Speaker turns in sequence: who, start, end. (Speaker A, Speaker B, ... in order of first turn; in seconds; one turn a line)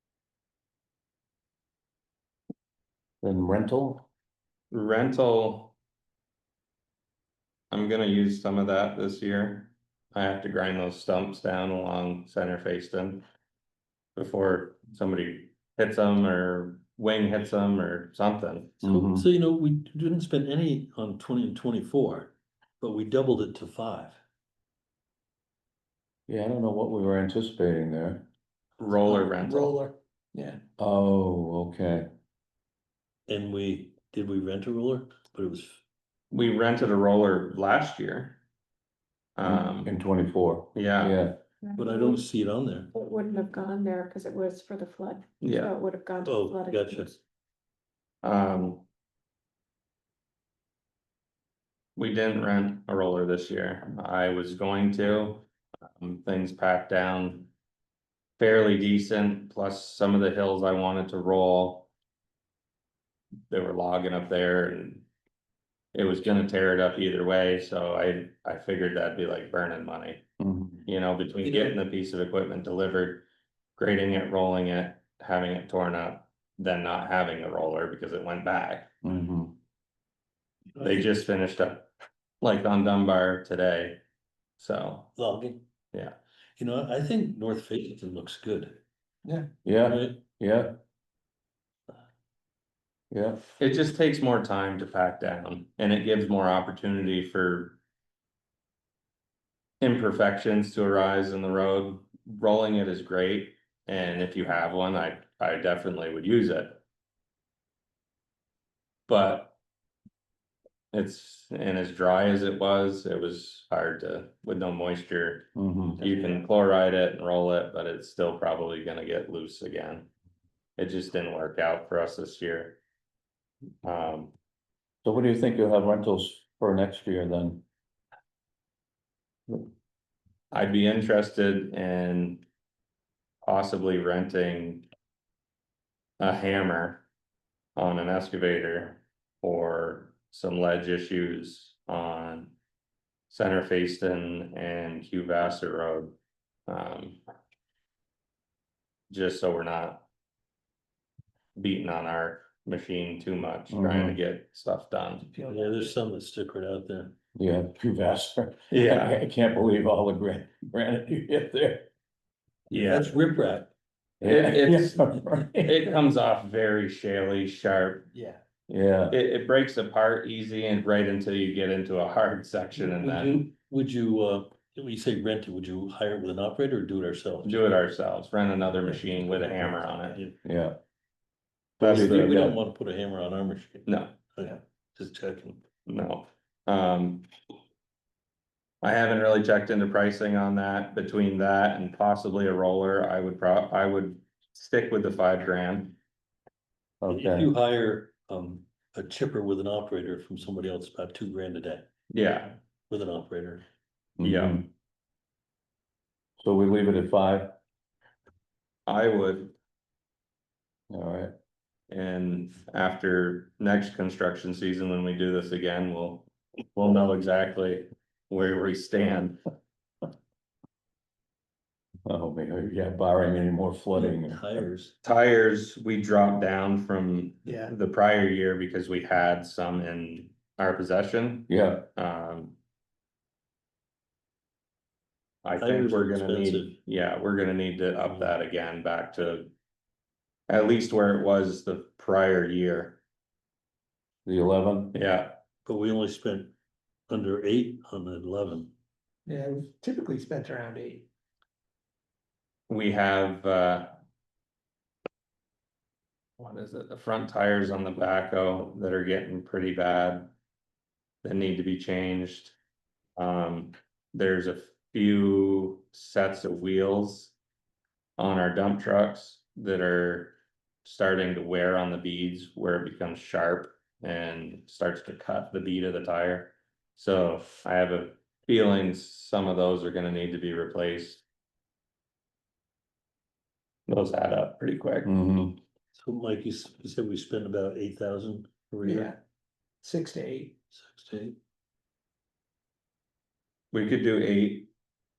Speaker A: 3.2-4.0
Speaker B: 4.7-5.8
Speaker B: 7.7-13.2
Speaker B: 14.2-18.8
Speaker A: 18.8-19.3
Speaker C: 18.9-24.2
Speaker A: 26.3-28.3
Speaker B: 28.8-29.8
Speaker D: 29.0-30.6
Speaker A: 30.8-32.1
Speaker C: 33.3-35.8
Speaker B: 36.3-38.4
Speaker B: 39.4-40.0
Speaker A: 39.4-41.4
Speaker B: 40.7-41.2
Speaker E: 41.6-42.2
Speaker C: 41.8-42.9
Speaker E: 42.9-47.2
Speaker B: 45.4-45.8
Speaker C: 46.2-47.1
Speaker B: 48.2-48.9
Speaker B: 52.0-57.5
Speaker B: 58.4-61.9
Speaker B: 63.5-65.1
Speaker B: 65.9-70.2
Speaker A: 70.4-70.9
Speaker B: 70.8-73.2
Speaker B: 73.8-78.9
Speaker A: 79.0-79.5
Speaker B: 80.8-81.9
Speaker B: 82.4-84.0
Speaker B: 84.6-85.1
Speaker C: 85.2-85.6
Speaker C: 86.6-88.8
Speaker A: 89.6-90.8
Speaker C: 89.9-90.2
Speaker A: 93.1-93.4
Speaker B: 93.6-97.8
Speaker B: 99.8-106.8
Speaker B: 109.1-109.5
Speaker B: 110.9-120.1
Speaker A: 115.5-116.0
Speaker B: 120.8-122.8
Speaker B: 123.8-124.3
Speaker A: 125.0-127.6
Speaker B: 130.5-132.4
Speaker B: 133.4-134.9
Speaker B: 136.2-137.0
Speaker B: 137.8-142.5
Speaker B: 143.3-146.2
Speaker B: 146.7-147.2
Speaker B: 149.1-150.1
Speaker B: 151.6-155.3
Speaker A: 153.7-154.2
Speaker D: 155.2-155.9
Speaker C: 155.5-157.1
Speaker A: 157.3-161.9
Speaker B: 158.7-159.2
Speaker B: 162.7-163.1
Speaker C: 162.7-163.7
Speaker A: 164.2-165.8
Speaker B: 164.2-168.1
Speaker A: 168.7-169.2
Speaker B: 169.1-173.4
Speaker C: 172.8-177.6
Speaker B: 177.4-180.2
Speaker C: 180.1-180.3
Speaker A: 180.4-180.8
Speaker A: 181.8-182.6
Speaker B: 181.8-182.2
Speaker C: 181.8-185.6
Speaker B: 183.8-184.1
Speaker B: 185.8-187.3
Speaker B: 188.8-196.0
Speaker A: 197.0-197.5
Speaker C: 197.1-201.9
Speaker B: 202.1-202.6
Speaker C: 202.9-203.6
Speaker A: 204.2-204.7
Speaker B: 204.2-204.7
Speaker A: 206.4-207.5
Speaker B: 208.9-209.5
Speaker A: 210.9-211.3
Speaker B: 211.9-219.4
Speaker A: 222.1-224.6
Speaker C: 223.9-224.9
Speaker B: 225.0-232.6
Speaker A: 231.5-231.9
Speaker B: 235.4-239.5
Speaker C: 235.6-236.8
Speaker C: 238.0-238.3
Speaker B: 240.5-243.0
Speaker A: 244.2-244.9
Speaker B: 244.9-245.4
Speaker C: 245.6-246.5
Speaker C: 247.1-248.7
Speaker D: 249.3-251.0
Speaker B: 252.7-253.9
Speaker B: 256.4-260.3
Speaker B: 261.2-262.6
Speaker B: 263.2-267.4
Speaker B: 268.2-281.2
Speaker B: 283.9-285.1
Speaker A: 285.0-285.6
Speaker C: 285.9-289.1
Speaker D: 288.8-289.1
Speaker D: 289.8-290.5
Speaker C: 290.7-291.4
Speaker B: 293.7-294.7